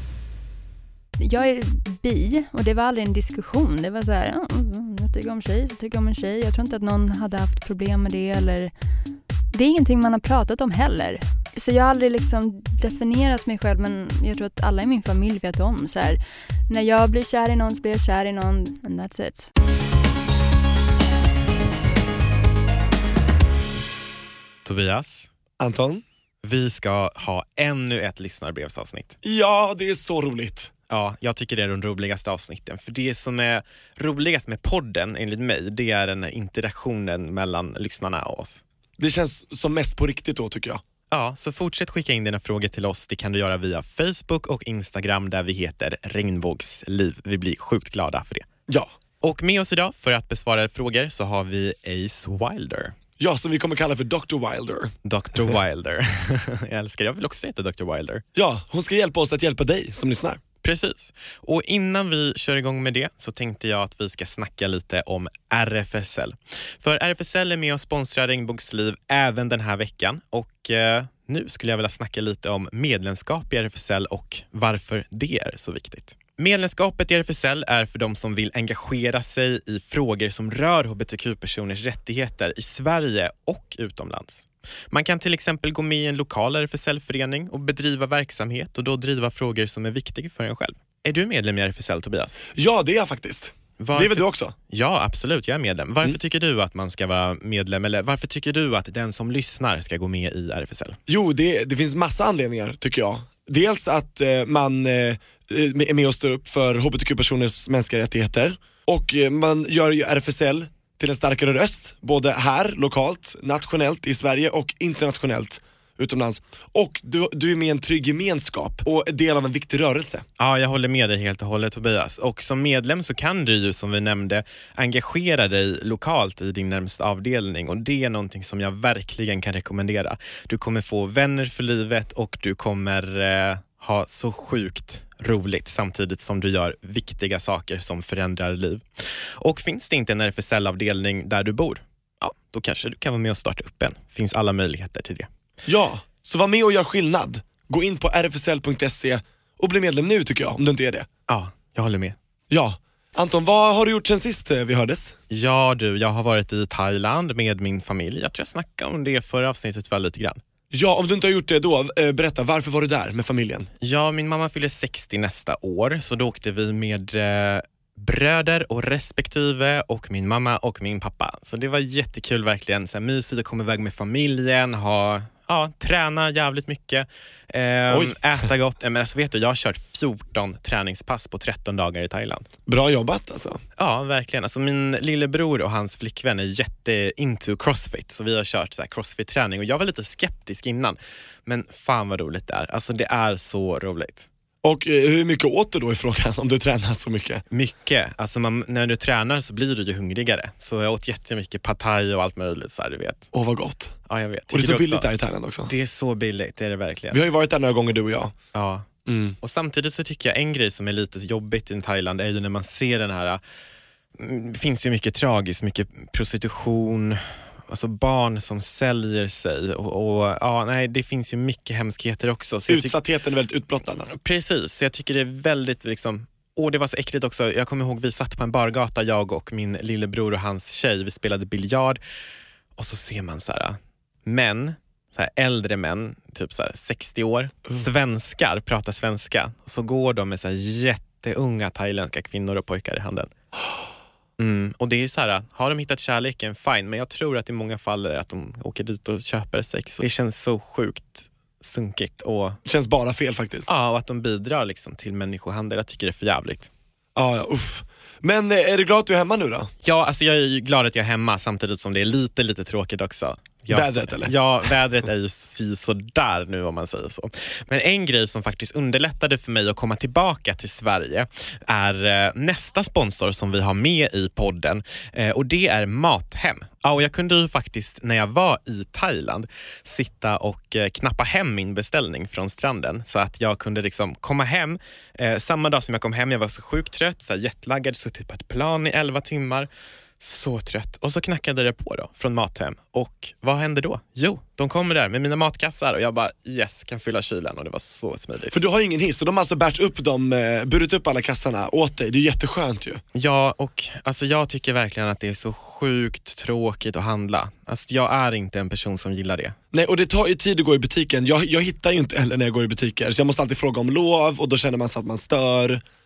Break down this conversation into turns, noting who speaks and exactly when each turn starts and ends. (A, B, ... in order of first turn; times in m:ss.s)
0:01.2-0:08.7 A
0:09.5-0:19.5 A
0:24.6-0:25.3 B
0:25.6-0:26.0 C
0:26.4-0:29.2 B
0:29.2-0:30.7 C
0:30.9-0:38.6 B
0:39.0-0:40.8 C
0:41.1-0:48.5 B
0:48.7-0:48.9 C
0:49.2-0:53.0 B
0:53.2-0:55.6 C
0:55.0-0:58.2 B
0:58.4-1:00.4 C
1:00.6-1:32.5 B
1:32.6-1:34.6 C
1:33.8-1:41.0 B
1:41.1-2:00.2 C
2:00.4-2:18.8 B
2:19.4-2:25.3 B
2:25.7-2:31.1 C
2:31.3-2:32.2 B
2:32.5-2:35.2 C
2:35.3-2:40.4 B
2:40.7-2:43.7 C
2:43.8-3:02.5 B
2:57.9-2:58.2 C
3:02.7-3:03.6 C
3:03.8-3:14.3 B
3:14.6-3:17.4 C
3:17.5-3:23.3 B
3:23.3-3:24.0 C
3:24.1-3:25.1 B
3:24.5-3:25.7 C
3:25.7-3:27.2 B
3:27.1-3:28.4 C
3:28.5-3:28.9 B
3:29.1-3:29.4 C
3:29.4-3:33.4 B
3:34.2-3:43.0 B
3:42.7-3:44.2 C
3:44.1-3:52.0 B
3:52.8-4:03.3 B
4:04.4-4:12.6 B
4:12.6-4:13.7 C
4:13.7-4:16.7 B
4:17.2-4:19.7 C
4:19.8-4:58.6 B
4:23.7-4:24.3 C
4:58.5-5:03.0 C
5:03.2-5:09.6 B
5:09.7-5:15.8 C